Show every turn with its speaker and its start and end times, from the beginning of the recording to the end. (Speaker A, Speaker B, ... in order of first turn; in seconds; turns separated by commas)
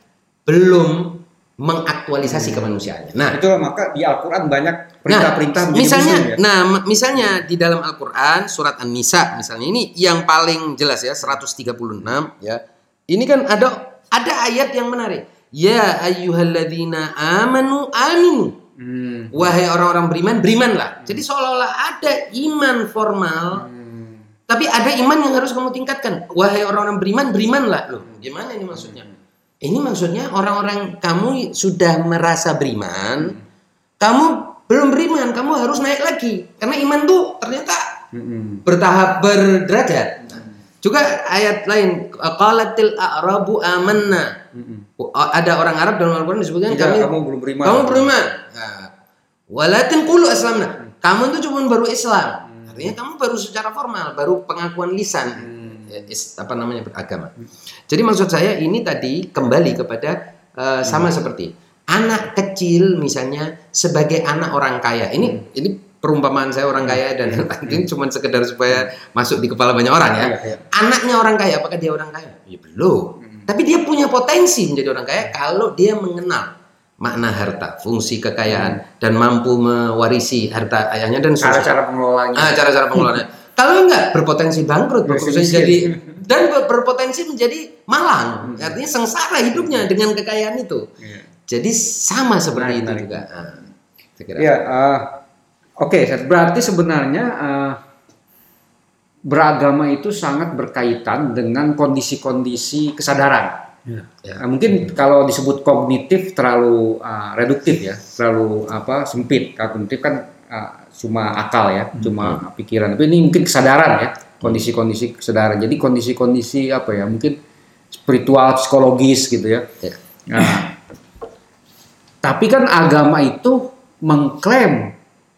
Speaker A: 0.5-3.4, Speaker B: 2.3-2.7, Speaker B: 3.3-6.4, Speaker A: 5.1-18.6, Speaker B: 18.8-19.5, Speaker A: 19.3-23.6, Speaker A: 24.5-29.1, Speaker A: 29.6-33.4, Speaker A: 34.0-37.8, Speaker B: 38.1-38.6, Speaker A: 38.7-44.4, Speaker B: 44.5-44.8, Speaker A: 45.0-47.1, Speaker B: 46.7-48.1, Speaker A: 47.6-48.9, Speaker A: 49.5-57.3, Speaker A: 57.9-81.8, Speaker B: 70.2-70.6, Speaker B: 78.5-78.8, Speaker B: 81.4-83.2, Speaker A: 82.3-90.9, Speaker B: 85.1-86.2, Speaker B: 88.5-88.7, Speaker A: 91.5-93.6, Speaker B: 92.5-93.2, Speaker A: 94.2-94.5, Speaker B: 94.4-95.2, Speaker B: 95.8-97.8, Speaker B: 99.3-103.7, Speaker B: 104.4-117.4, Speaker B: 118.0-119.7, Speaker B: 120.3-120.8, Speaker B: 122.2-125.0